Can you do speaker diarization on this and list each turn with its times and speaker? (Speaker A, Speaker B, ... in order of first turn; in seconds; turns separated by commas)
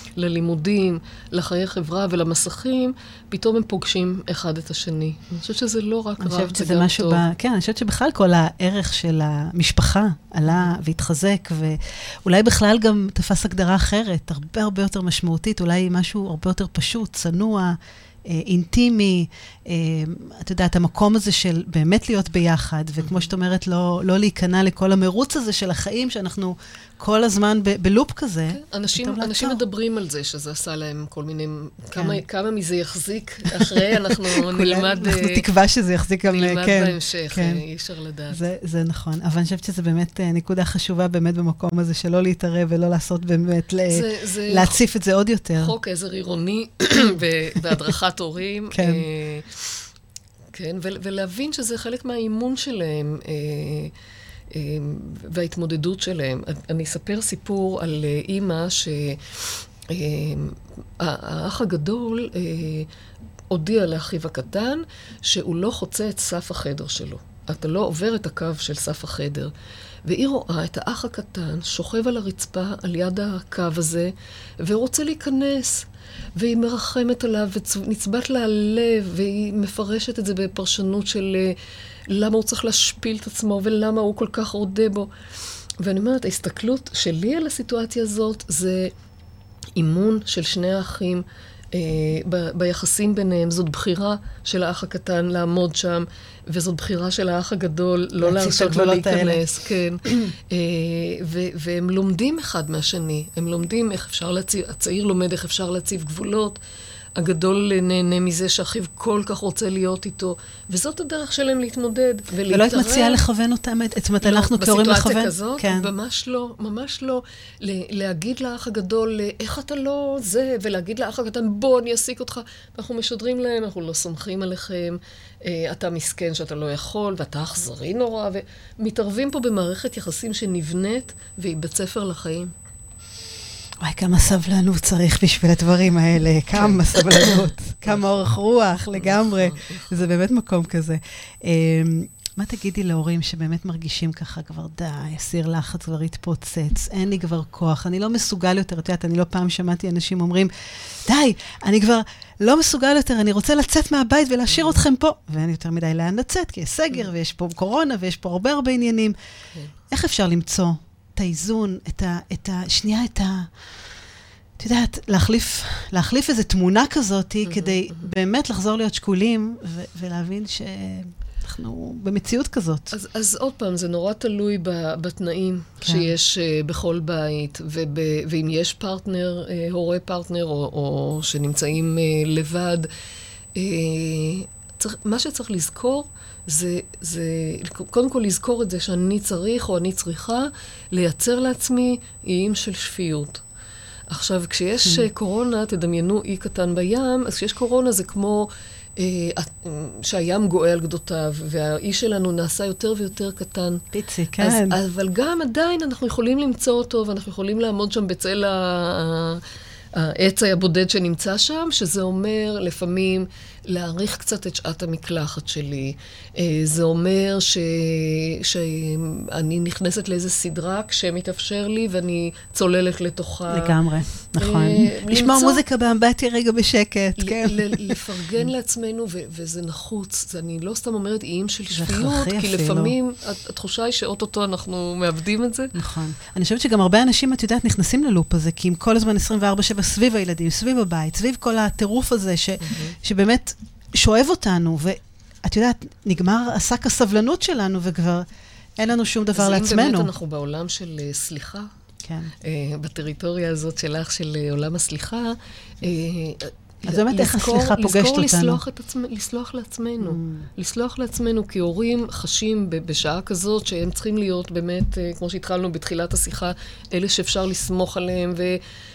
Speaker A: 0.2-7.2, Speaker B: 6.2-29.6, Speaker A: 28.5-35.4, Speaker B: 33.5-37.6, Speaker A: 36.2-38.4, Speaker B: 38.3-45.8, Speaker A: 43.9-44.8, Speaker A: 45.6-49.8, Speaker B: 48.7-49.0, Speaker A: 50.5-54.0, Speaker A: 54.5-62.9, Speaker A: 63.5-69.5, Speaker A: 70.0-85.1, Speaker A: 85.8-88.9, Speaker A: 89.8-106.6, Speaker B: 98.2-99.4, Speaker A: 107.2-113.2, Speaker B: 112.5-115.9, Speaker A: 114.2-132.5, Speaker B: 133.8-150.5, Speaker A: 136.6-138.3, Speaker A: 138.8-140.1, Speaker B: 151.1-159.2, Speaker B: 159.9-163.5, Speaker B: 164.6-172.9, Speaker A: 167.4-167.8, Speaker A: 172.9-182.9, Speaker B: 175.8-176.1, Speaker A: 183.6-193.4, Speaker A: 194.1-203.9, Speaker B: 203.9-204.8, Speaker A: 204.4-223.8, Speaker B: 223.5-228.0, Speaker A: 224.4-225.6, Speaker A: 227.2-235.7, Speaker B: 231.7-232.9, Speaker B: 235.8-248.3, Speaker A: 242.6-242.9, Speaker B: 248.8-250.1, Speaker A: 249.3-251.7, Speaker B: 252.0-252.3, Speaker A: 252.4-268.6, Speaker B: 256.9-258.6, Speaker B: 260.0-260.5